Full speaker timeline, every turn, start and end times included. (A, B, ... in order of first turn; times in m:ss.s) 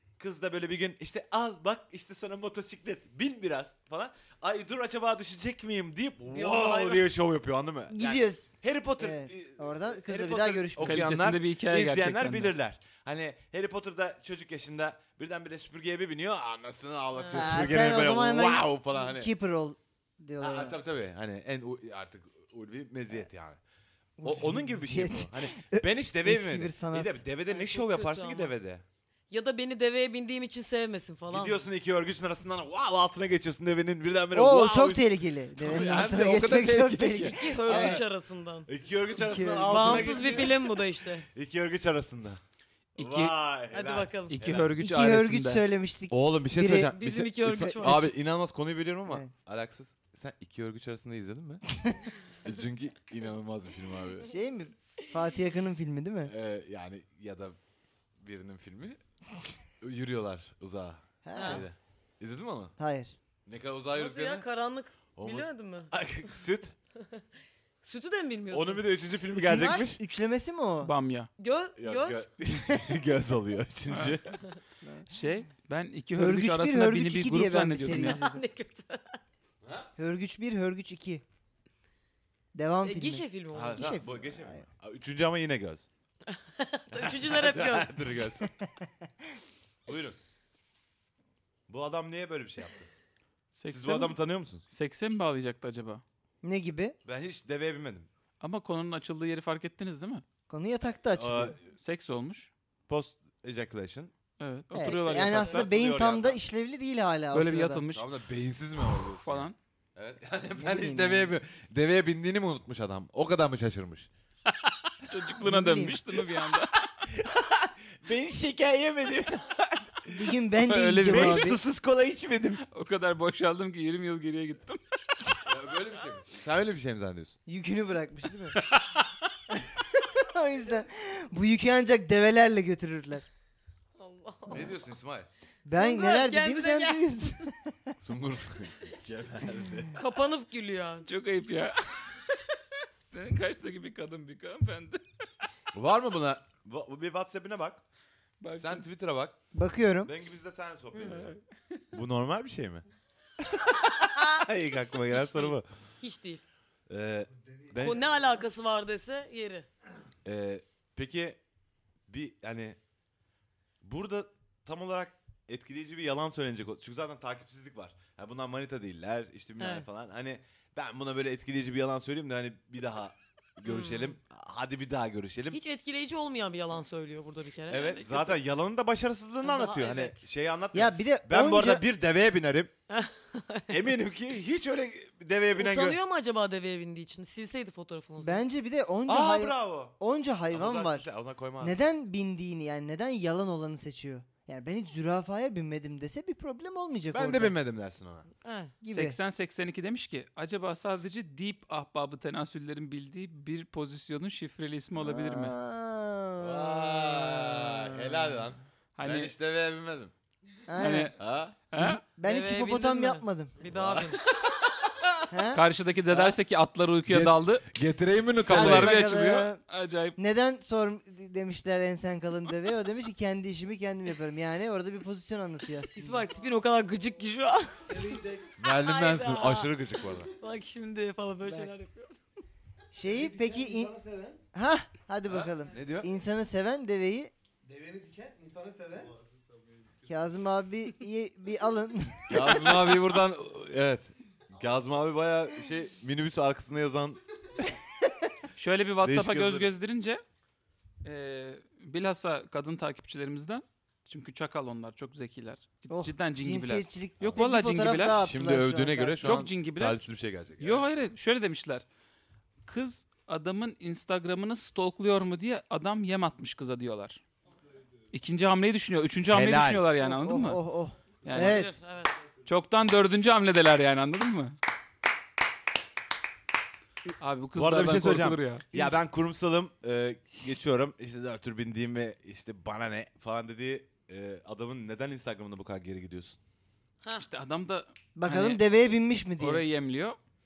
0:00.2-0:19.3 A
0:06.3-0:07.1 B
0:07.9-0:08.5 C
0:09.0-0:11.2 C
0:10.8-0:12.5 D
0:17.1-0:17.7 B
0:17.3-0:20.8 C
0:20.4-0:23.6 A
0:24.2-0:27.2 C
0:24.2-0:28.8 A
0:27.5-0:28.5 B
0:29.3-0:31.6 B
0:31.3-0:38.0 A
0:34.3-0:38.0 C
0:37.2-0:38.7 B
0:38.7-0:42.4 A
0:39.2-0:40.5 C
0:39.7-0:41.3 B
0:43.0-0:43.4 D
0:43.0-0:44.7 A
0:43.7-0:44.4 B
0:44.3-0:45.6 D
0:44.8-0:46.9 C
0:46.1-0:51.7 A
0:46.7-0:48.1 B
0:47.6-0:48.0 C
0:52.3-0:54.3 A
0:54.2-0:56.3 C
0:56.2-0:57.6 A
0:58.2-0:59.0 A
0:59.8-1:02.8 A
1:01.2-1:01.7 C
1:01.3-1:01.6 B
1:02.8-1:03.2 C
1:03.4-1:04.4 A
1:03.9-1:05.9 B
1:05.2-1:06.7 A
1:07.8-1:09.9 B
1:08.5-1:10.0 A
1:09.4-1:10.9 C
1:10.8-1:11.3 D
1:11.4-1:12.3 B
1:11.8-1:14.4 A
1:14.8-1:15.1 C
1:15.1-1:18.2 D
1:16.2-1:18.4 C
1:17.9-1:19.2 B
1:19.6-1:19.9 A
1:20.0-1:21.2 C
1:22.5-1:24.6 C
1:22.8-1:24.0 B
1:23.5-1:25.9 A
1:26.3-1:28.2 B
1:26.9-1:28.5 A
1:28.6-1:29.1 C
1:29.9-1:30.2 A
1:31.7-1:32.9 A
1:33.5-1:34.2 D
1:33.7-1:34.6 A
1:34.7-1:36.0 D
1:36.4-1:37.0 C
1:37.0-1:38.1 A
1:38.4-1:40.2 D
1:40.5-1:41.6 C
1:41.2-1:41.7 A
1:41.7-1:42.5 D
1:42.9-1:44.1 A
1:44.4-1:45.7 D
1:44.7-1:47.8 C
1:45.1-1:46.4 A
1:47.3-1:48.1 D
1:47.9-1:54.1 A
1:49.0-1:49.6 D
1:50.6-1:51.3 C
1:54.5-1:56.9 D
1:55.4-1:56.0 C
1:57.0-2:00.3 A
2:00.1-2:01.6 C
2:00.6-2:01.5 D
2:01.0-2:02.6 A
2:02.7-2:05.4 D
2:05.4-2:07.4 A
2:07.4-2:08.6 C
2:08.6-2:09.0 D
2:09.5-2:13.2 C
2:14.0-2:14.7 B
2:14.5-2:15.3 A
2:15.6-2:17.9 C
2:15.7-2:17.4 B
2:18.0-2:20.0 A
2:19.9-2:21.1 B
2:21.0-2:22.6 D
2:23.1-2:25.0 D
2:25.7-2:27.8 A
2:28.4-2:28.8 D
2:28.6-2:29.4 A
2:29.5-2:30.1 C
2:30.0-2:31.4 A
2:31.9-2:32.8 A
2:33.4-2:35.6 A
2:34.1-2:36.4 B
2:36.9-2:38.0 A
2:37.8-2:39.7 B
2:40.2-2:41.4 A
2:42.1-2:42.8 A
2:43.8-2:55.6 A
2:49.6-2:49.8 B
2:53.6-2:54.2 B
2:55.5-2:58.4 B
2:57.7-3:02.7 A
2:59.4-3:00.2 B
3:00.7-3:01.8 C
3:02.9-3:03.7 B
3:03.7-3:06.0 A
3:05.6-3:08.4 B
3:08.2-3:11.0 C
3:09.1-3:10.0 A
3:10.5-3:11.8 A
3:11.6-3:17.5 C
3:17.1-3:18.3 A
3:18.4-3:18.7 B
3:18.8-3:19.2 C
3:18.9-3:25.5 D
3:25.0-3:28.3 C
3:26.4-3:30.1 A
3:29.0-3:29.3 D
3:30.7-3:31.2 C
3:30.8-3:31.2 D
3:31.2-3:31.6 A
3:31.7-3:32.0 D
3:31.8-3:33.6 C
3:32.2-3:34.2 B
3:33.7-3:35.3 A
3:35.3-3:35.6 C
3:35.5-3:37.6 D
3:37.0-3:39.0 A
3:38.4-3:40.2 D
3:38.5-3:39.6 C
3:40.2-3:46.2 C
3:45.9-3:52.2 B
3:47.9-3:48.5 E
3:48.6-3:50.3 A
3:52.9-3:53.9 C
3:53.0-3:54.4 E
3:54.5-3:57.3 C
3:55.3-3:56.1 A
3:57.6-3:59.1 E
4:00.0-4:02.9 C
4:02.3-4:07.2 A
4:08.5-4:10.2 D
4:09.0-4:09.7 A
4:11.0-4:18.2 D
4:15.9-4:19.4 C
4:18.1-4:20.8 A
4:19.2-4:20.0 D
4:20.6-4:21.8 D
4:22.6-4:27.2 D
4:28.1-4:30.6 D
4:29.3-4:29.9 A
4:30.0-4:31.7 C
4:31.2-4:31.6 D
4:31.3-4:32.2 B
4:32.4-4:34.6 D
4:37.2-4:38.9 D
4:37.5-4:46.4 A
4:47.2-4:48.6 D
4:48.2-4:49.6 C
4:49.4-4:50.2 D